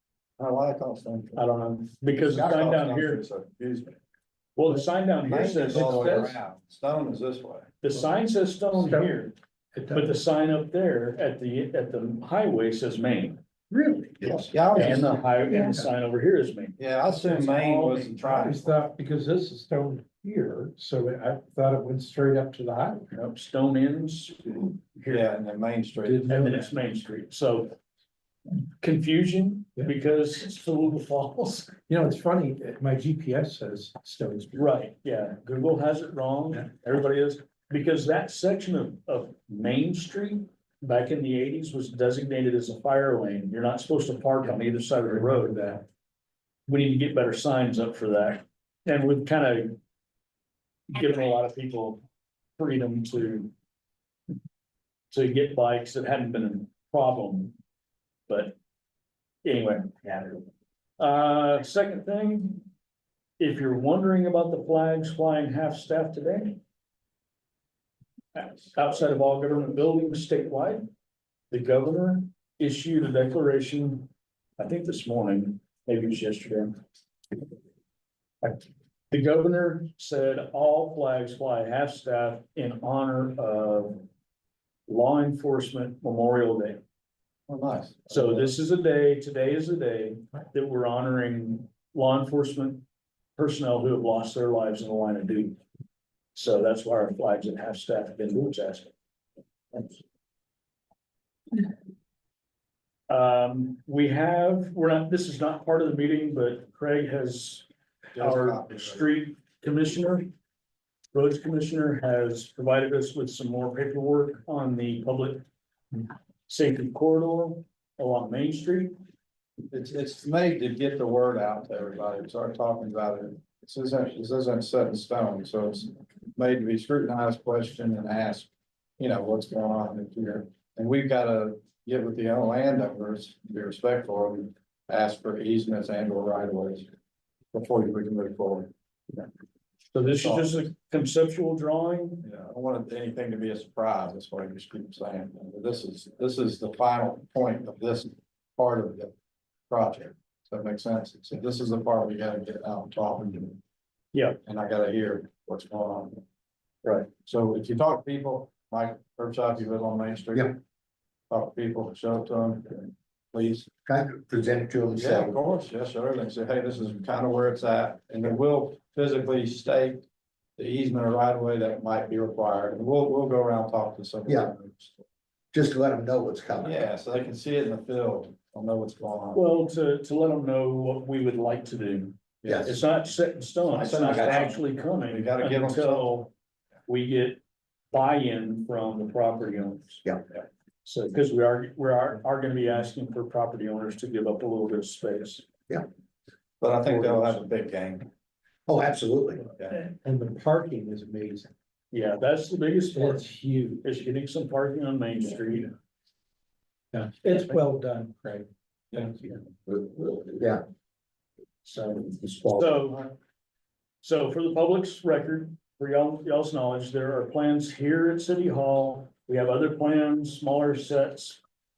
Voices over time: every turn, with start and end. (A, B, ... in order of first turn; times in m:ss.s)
0:00.4-0:01.4 A
0:01.4-0:03.2 B
0:02.1-0:04.0 A
0:04.6-0:06.3 B
0:05.2-0:07.7 A
0:05.7-0:06.3 C
0:07.8-0:09.3 B
0:08.7-0:10.2 C
0:09.9-0:13.4 B
0:13.7-0:15.9 C
0:14.2-0:15.2 A
0:14.7-0:18.5 B
0:16.8-0:18.8 A
0:18.4-0:23.0 C
0:23.1-0:25.3 B
0:25.1-0:26.4 A
0:26.0-0:26.7 C
0:26.3-0:27.8 B
0:28.8-0:31.8 B
0:31.9-0:34.7 C
0:34.5-0:45.7 B
0:45.1-0:45.8 C
0:46.7-0:49.8 B
0:50.9-0:52.0 B
0:52.6-0:53.5 B
0:55.1-0:57.5 B
0:58.3-0:58.5 B
0:59.4-1:00.4 B
1:01.0-1:02.7 B
1:03.4-1:06.6 B
1:08.3-1:10.8 B
1:11.5-1:16.8 B
1:18.4-1:24.0 B
1:24.9-1:26.8 B
1:27.5-1:28.5 A
1:28.1-1:32.8 B
1:33.4-1:35.6 B
1:36.3-1:38.9 B
1:43.1-1:47.6 B
1:48.1-1:49.1 A
1:48.2-1:50.3 B
1:51.1-1:55.4 B
1:56.5-1:58.9 B
1:59.7-2:16.9 A
2:17.5-2:19.2 A
2:19.9-2:22.2 B
2:20.2-2:20.6 A
2:22.2-2:29.1 A
2:29.7-2:33.6 A
2:34.4-2:36.2 A
2:36.8-2:37.1 B
2:37.2-2:40.6 A
2:41.3-2:43.7 A
2:43.8-2:45.4 D
2:44.9-2:50.0 A
2:50.6-2:55.0 A
2:54.3-2:54.5 D
2:55.5-2:56.8 D
2:56.6-2:59.4 A
2:59.3-3:06.3 B
3:02.4-3:02.7 A
3:02.4-3:02.7 D
3:03.7-3:06.1 A
3:04.0-3:04.4 D
3:06.9-3:07.4 B
3:07.9-3:10.1 B
3:10.8-3:15.5 B
3:16.6-3:18.1 A
3:16.8-3:17.4 B
3:18.7-3:19.5 D
3:19.7-3:21.5 C
3:21.9-3:23.2 B
3:22.9-3:23.8 C
3:23.8-3:25.7 B
3:26.9-3:29.4 C
3:29.7-3:30.6 D
3:31.6-3:33.1 B
3:32.2-3:32.7 D
3:34.0-3:41.4 B